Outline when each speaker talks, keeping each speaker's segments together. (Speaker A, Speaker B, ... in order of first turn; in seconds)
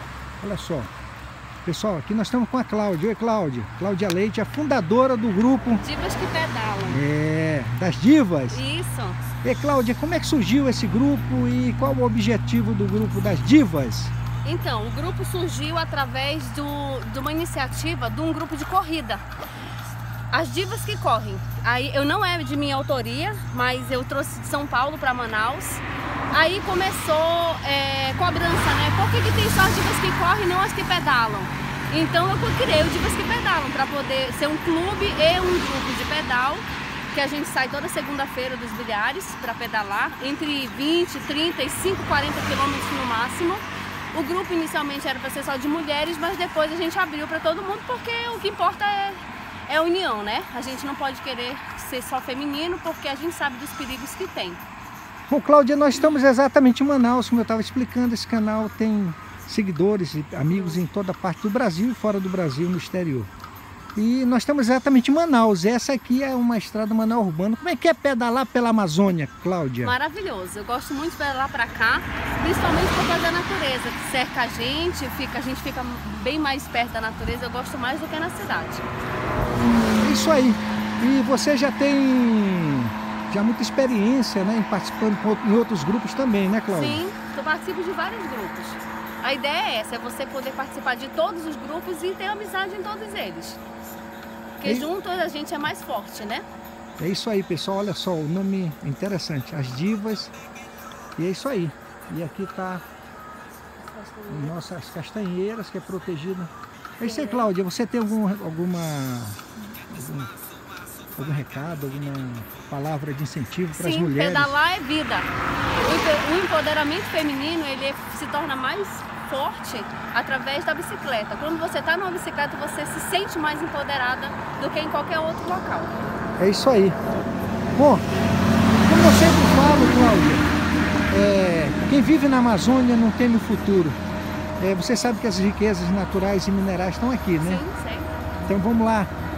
Speaker A: 0.4-0.9, 1.6-5.8, 6.9-8.6, 9.4-14.1, 55.3-63.3, 64.0-70.0, 80.0-87.0, 94.6-94.9, 97.0-100.3, 101.2-102.8, 104.3-110.3, 111.2-114.5, 126.4-127.0, 127.8-128.1, 128.8-130.5, 131.1-134.0, 134.6-137.6, 138.4-139.1
Speaker B: 5.8-7.0, 8.5-9.2, 14.4-19.2, 20.3-54.6, 60.5-60.8, 69.8-78.9, 86.7-93.6, 94.6-96.4, 103.8-104.5, 107.0-107.5, 113.8-115.3, 115.8-126.0, 137.4-138.1